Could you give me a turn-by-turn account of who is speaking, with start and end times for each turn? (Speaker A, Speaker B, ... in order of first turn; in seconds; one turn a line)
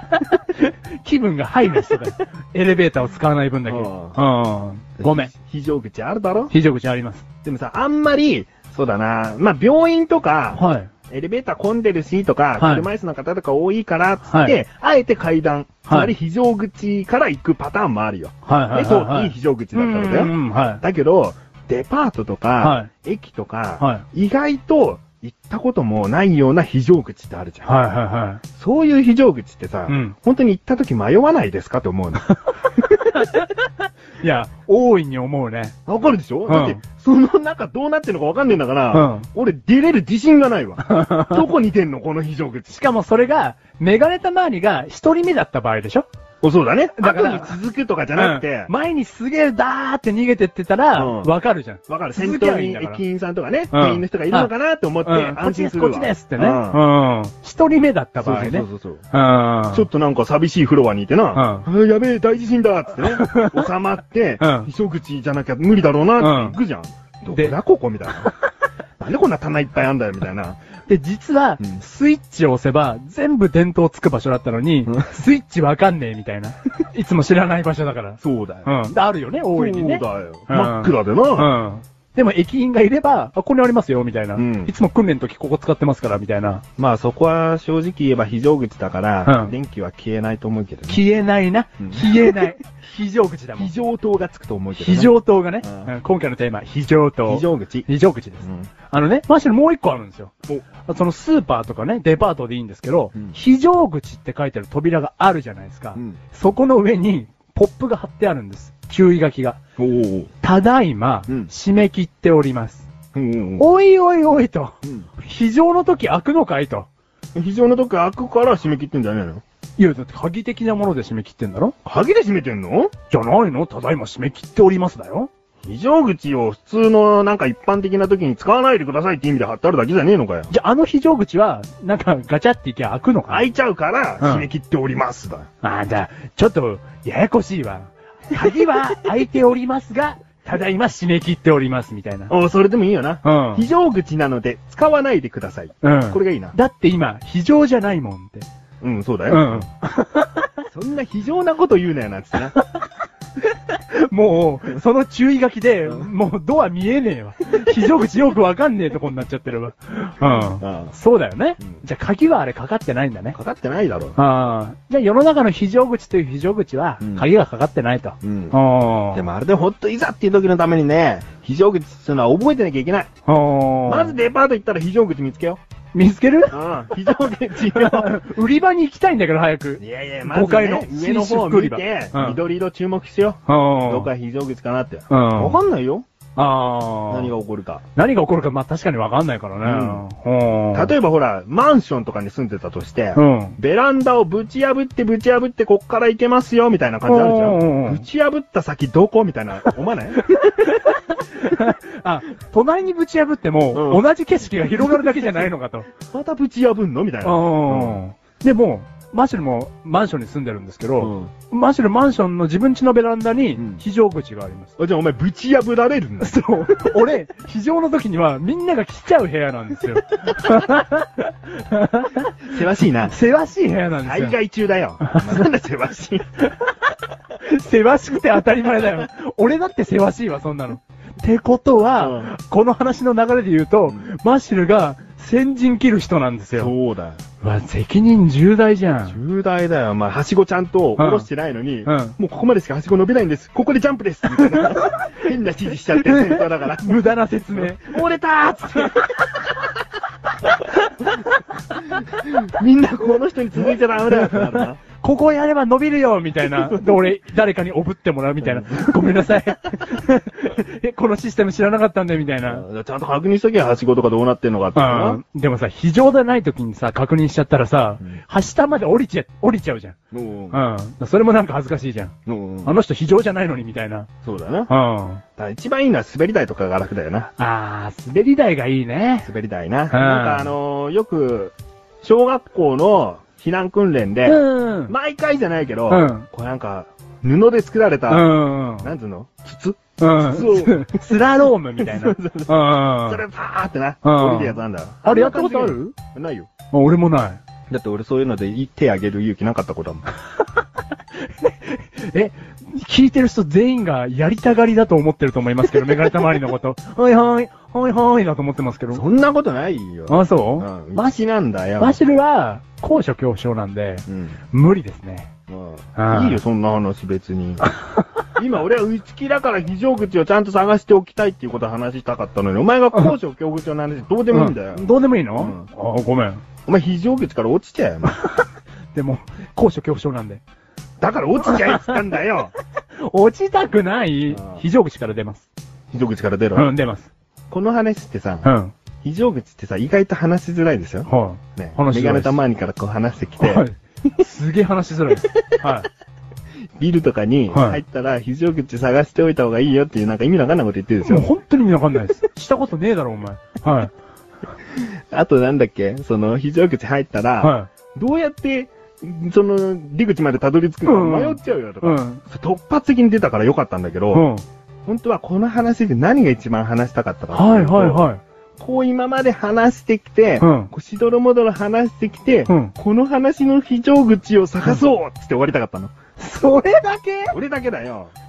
Speaker A: 0.1-5.3
Speaker B: 3.7-4.2
Speaker B: 5.0-6.5
Speaker A: 6.5-7.2
Speaker B: 7.4-27.8
Speaker A: 10.5-10.9
Speaker A: 12.6-12.9
Speaker A: 14.3-14.6
Speaker A: 15.9-16.1
Speaker A: 18.4-20.8
Speaker A: 22.6-22.9
Speaker A: 27.6-28.4
Speaker B: 28.5-32.3
Speaker A: 29.9-30.1
Speaker A: 32.6-33.6
Speaker B: 32.9-33.2
Speaker A: 34.2-35.8
Speaker B: 35.9-42.8
Speaker A: 36.5-36.8
Speaker A: 38.9-39.2
Speaker A: 40.9-41.4
Speaker A: 42.7-46.1
Speaker B: 46.4-48.7
Speaker A: 47.0-47.6
Speaker A: 48.2-53.0
Speaker B: 51.0-51.3
Speaker B: 51.9-56.8
Speaker A: 53.7-54.5
Speaker A: 55.0-59.9
Speaker B: 58.2-59.0
Speaker B: 59.7-68.3
Speaker A: 61.3-61.7
Speaker A: 63.0-63.6
Speaker A: 64.4-64.7
Speaker A: 66.2-66.6
Speaker B: 69.0-70.6
Speaker A: 70.8-86.6
Speaker B: 78.2-78.9
Speaker B: 79.5-81.5
Speaker B: 84.3-84.7
Speaker B: 86.8-91.0
Speaker A: 89.2-89.5
Speaker A: 90.9-93.7
Speaker B: 91.8-92.5
Speaker B: 93.6-95.9
Speaker A: 94.8-109.6
Speaker B: 97.2-97.9
Speaker B: 98.4-98.7
Speaker B: 109.8-110.3
Speaker A: 110.4-112.9
Speaker B: 113.1-113.7
Speaker A: 113.6-116.9
Speaker B: 117.3-119.4
Speaker A: 119.8-121.8
Speaker B: 121.8-122.9
Speaker A: 123.1-125.3
Speaker B: 125.6-130.5
Speaker A: 130.5-133.5
Speaker B: 133.3-135.5
Speaker A: 134.2-134.5
Speaker A: 135.6-142.3
Speaker B: 142.3-146.6
Speaker A: 143.2-143.7
Speaker A: 145.8-148.4
Speaker B: 148.8-149.7
Speaker A: 149.3-150.5
Speaker B: 150.7-152.6
Speaker A: 152.5-152.8
Speaker A: 153.4-163.4
Speaker B: 160.2-160.9
Speaker B: 163.3-164.2
Speaker A: 164.2-169.2
Speaker B: 167.0-167.3
Speaker B: 168.2-168.6
Speaker B: 169.1-173.1
Speaker A: 173.2-174.2
Speaker B: 173.9-175.6
Speaker A: 175.9-176.6
Speaker B: 176.5-178.2
Speaker A: 177.6-182.4
Speaker B: 179.8-186.1
Speaker A: 183.5-184.1
Speaker A: 185.1-185.6
Speaker A: 186.4-187.3
Speaker B: 187.1-187.8
Speaker A: 187.9-190.9
Speaker B: 189.6-190.0
Speaker B: 190.7-200.2
Speaker A: 193.1-193.6
Speaker A: 197.1-198.0
Speaker A: 200.3-205.9
Speaker B: 203.7-204.0
Speaker B: 204.6-205.3
Speaker B: 206.1-208.0
Speaker A: 207.2-214.7
Speaker B: 211.0-211.3
Speaker B: 213.6-213.8
Speaker B: 214.8-217.0
Speaker A: 216.2-224.4
Speaker B: 222.4-223.1
Speaker B: 224.0-226.2
Speaker A: 225.0-225.4
Speaker A: 227.4-236.7
Speaker B: 232.0-232.3
Speaker B: 236.5-237.2
Speaker A: 237.4-239.2
Speaker B: 239.1-249.4
Speaker A: 241.0-241.3
Speaker A: 241.9-242.1
Speaker A: 244.3-245.1
Speaker A: 245.9-249.1
Speaker A: 250.6-251.2
Speaker B: 252.0-254.8
Speaker A: 254.1-262.6
Speaker B: 256.5-257.0
Speaker B: 258.4-259.4
Speaker B: 262.4-265.2
Speaker A: 264.8-269.9
Speaker B: 270.1-270.6
Speaker A: 270.5-272.1
Speaker B: 272.2-272.8
Speaker A: 272.6-274.1
Speaker B: 274.2-274.7
Speaker A: 274.7-275.2
Speaker B: 275.4-277.3
Speaker A: 277.4-279.3
Speaker B: 279.2-291.1
Speaker A: 279.9-280.5
Speaker A: 284.2-284.9
Speaker A: 285.9-286.2
Speaker A: 288.1-288.9
Speaker A: 290.0-293.2
Speaker B: 291.8-296.5
Speaker A: 294.0-295.9
Speaker A: 296.7-297.4
Speaker B: 297.7-300.1
Speaker A: 301.2-309.1
Speaker B: 308.9-312.0
Speaker A: 310.1-311.0
Speaker A: 311.8-315.3
Speaker B: 314.1-314.4
Speaker B: 315.5-317.6
Speaker A: 315.9-316.4
Speaker B: 318.4-325.7
Speaker A: 324.3-326.4
Speaker B: 326.6-328.1
Speaker A: 328.1-330.4
Speaker B: 331.0-332.5
Speaker A: 331.5-331.9
Speaker A: 333.0-335.5
Speaker B: 334.3-334.6
Speaker B: 335.9-336.7
Speaker A: 336.6-337.1
Speaker B: 337.5-338.5
Speaker A: 338.4-338.7
Speaker B: 339.0-343.6
Speaker A: 341.1-342.4
Speaker A: 343.4-345.9
Speaker B: 345.2-345.6
Speaker B: 346.8-351.3
Speaker A: 347.5-347.8
Speaker A: 351.1-353.9
Speaker B: 354.8-364.2
Speaker A: 357.4-357.7
Speaker A: 360.8-362.2
Speaker A: 364.1-364.4
Speaker B: 364.9-375.9
Speaker A: 367.3-368.2
Speaker A: 370.4-370.7
Speaker A: 372.5-372.7
Speaker A: 376.2-377.4
Speaker B: 377.3-378.1